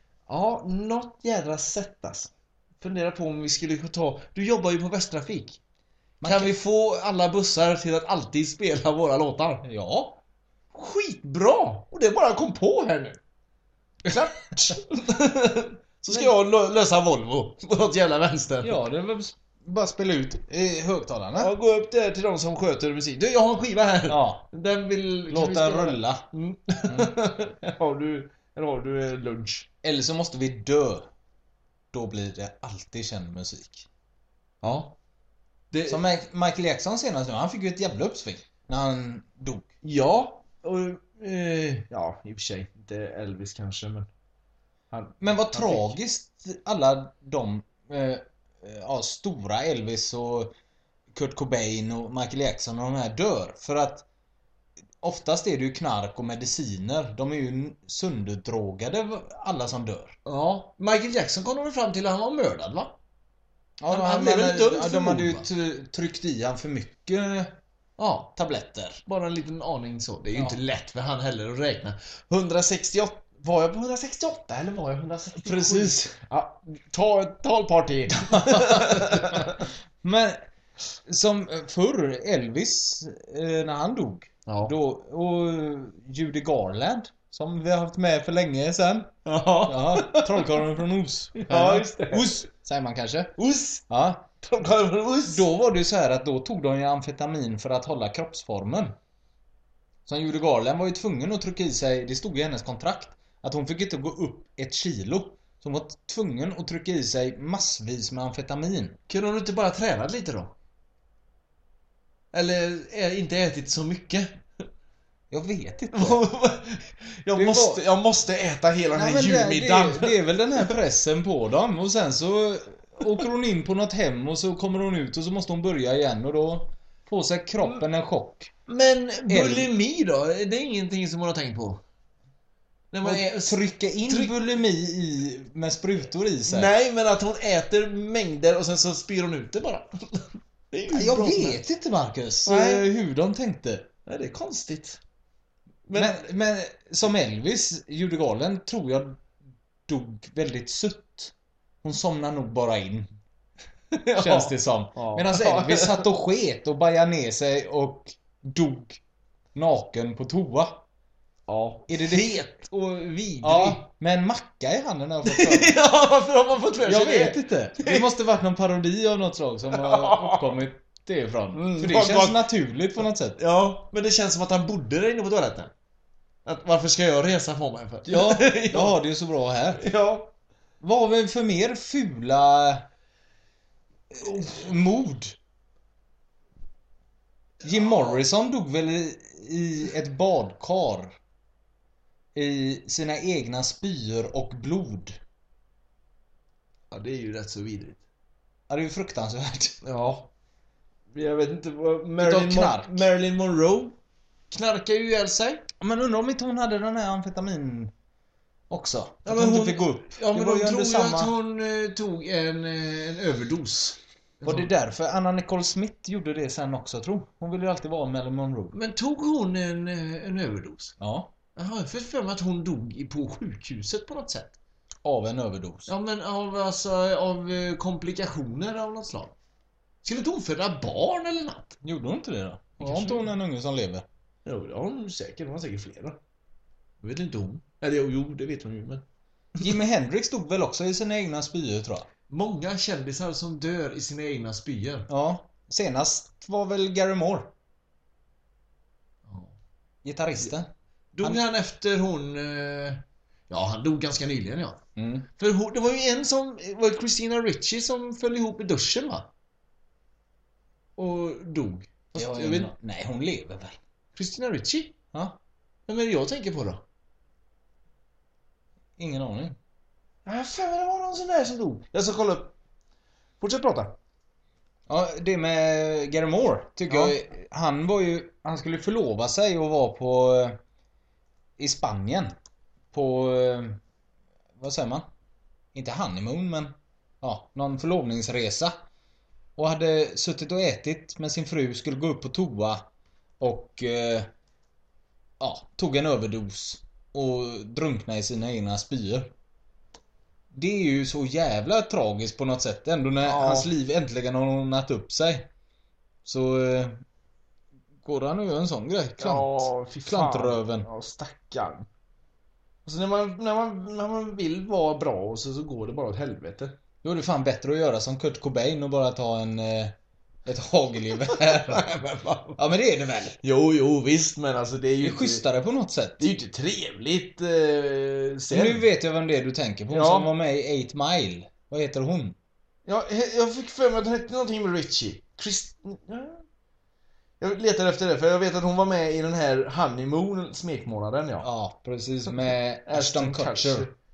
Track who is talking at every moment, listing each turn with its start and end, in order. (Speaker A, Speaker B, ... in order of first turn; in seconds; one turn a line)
Speaker A: 0.3-5.6
Speaker B: 6.2-6.5
Speaker A: 6.2-9.6
Speaker B: 9.6-10.2
Speaker A: 10.7-13.2
Speaker A: 14.0-18.8
Speaker B: 18.6-21.5
Speaker A: 21.4-29.7
Speaker B: 24.1-24.4
Speaker B: 25.3-26.2
Speaker B: 26.9-27.1
Speaker B: 29.8-31.1
Speaker B: 31.9-33.9
Speaker A: 34.6-35.0
Speaker A: 35.7-36.0
Speaker B: 35.9-39.7
Speaker A: 39.8-44.1
Speaker A: 44.9-46.0
Speaker B: 45.2-50.5
Speaker B: 51.1-54.0
Speaker B: 55.0-60.2
Speaker A: 60.2-63.0
Speaker B: 63.8-67.5
Speaker A: 63.9-65.5
Speaker A: 68.0-68.3
Speaker B: 68.3-69.0
Speaker A: 69.0-79.6
Speaker B: 75.4-76.2
Speaker B: 78.3-80.4
Speaker B: 81.1-89.1
Speaker A: 84.5-84.7
Speaker A: 89.2-90.5
Speaker B: 89.7-93.3
Speaker A: 91.4-92.4
Speaker A: 93.4-93.8
Speaker B: 93.9-94.3
Speaker A: 94.4-95.4
Speaker B: 95.3-99.0
Speaker B: 100.0-109.0
Speaker A: 109.1-110.5
Speaker A: 112.3-114.7
Speaker B: 115.3-116.2
Speaker A: 115.9-120.7
Speaker B: 117.3-117.8
Speaker B: 118.9-128.5
Speaker A: 128.7-131.8
Speaker B: 129.3-129.7
Speaker A: 132.9-134.3
Speaker B: 133.0-136.7
Speaker A: 136.5-141.7
Speaker B: 140.9-143.9
Speaker A: 142.4-142.9
Speaker A: 144.1-145.0
Speaker A: 145.9-146.2
Speaker B: 145.9-149.2
Speaker B: 149.9-153.1
Speaker A: 153.9-156.1
Speaker B: 154.2-159.0
Speaker B: 159.5-160.8
Speaker A: 161.5-163.9
Speaker B: 161.9-162.4
Speaker B: 163.4-165.8
Speaker A: 165.2-168.1
Speaker B: 166.8-173.4
Speaker A: 169.7-170.6
Speaker A: 171.5-172.5
Speaker A: 173.4-175.7
Speaker A: 176.4-179.0
Speaker B: 178.1-179.8
Speaker A: 179.8-180.3
Speaker B: 180.8-182.8
Speaker B: 184.1-185.4
Speaker A: 184.2-184.6
Speaker A: 187.6-188.2
Speaker B: 187.6-191.2
Speaker B: 192.3-195.2
Speaker A: 196.9-198.0
Speaker B: 198.7-199.8
Speaker A: 199.8-200.3
Speaker A: 201.1-203.9
Speaker B: 202.2-203.0
Speaker A: 204.5-205.6
Speaker B: 205.8-207.9
Speaker B: 208.7-211.3
Speaker A: 209.2-214.7
Speaker B: 214.4-218.7
Speaker A: 218.7-220.9
Speaker B: 221.0-221.3
Speaker A: 221.6-224.6
Speaker B: 225.0-225.9
Speaker A: 225.9-229.3
Speaker A: 230.0-231.8
Speaker B: 231.8-234.0
Speaker A: 232.8-233.3
Speaker A: 234.4-236.2
Speaker A: 237.0-239.0
Speaker B: 239.6-242.1
Speaker A: 242.3-245.1
Speaker B: 245.1-247.5
Speaker A: 249.2-249.5
Speaker B: 250.0-250.7
Speaker A: 251.1-254.8
Speaker B: 255.0-255.3
Speaker A: 255.4-259.3
Speaker A: 260.9-262.7
Speaker B: 262.1-263.8
Speaker A: 264.1-264.9
Speaker B: 265.1-265.4
Speaker A: 265.9-266.8
Speaker B: 269.0-269.6
Speaker A: 270.2-272.5
Speaker A: 273.4-273.9
Speaker B: 274.9-280.6
Speaker A: 276.9-277.1
Speaker B: 281.6-282.3
Speaker B: 282.9-283.8
Speaker B: 284.6-285.1
Speaker B: 285.7-288.8
Speaker B: 289.6-292.8
Speaker B: 293.4-294.3
Speaker B: 295.4-299.3
Speaker B: 300.5-305.5
Speaker A: 303.2-303.7
Speaker B: 306.2-307.0
Speaker B: 308.0-310.9
Speaker A: 309.2-311.9
Speaker A: 312.8-316.8
Speaker B: 317.0-319.9
Speaker B: 320.4-321.9
Speaker A: 321.2-322.6
Speaker B: 322.6-323.4
Speaker A: 323.4-325.4
Speaker B: 325.0-326.3
Speaker A: 326.2-328.9
Speaker B: 328.5-332.4
Speaker A: 329.9-330.3
Speaker A: 332.9-336.4
Speaker A: 337.4-341.5
Speaker B: 341.4-343.9
Speaker A: 342.2-343.9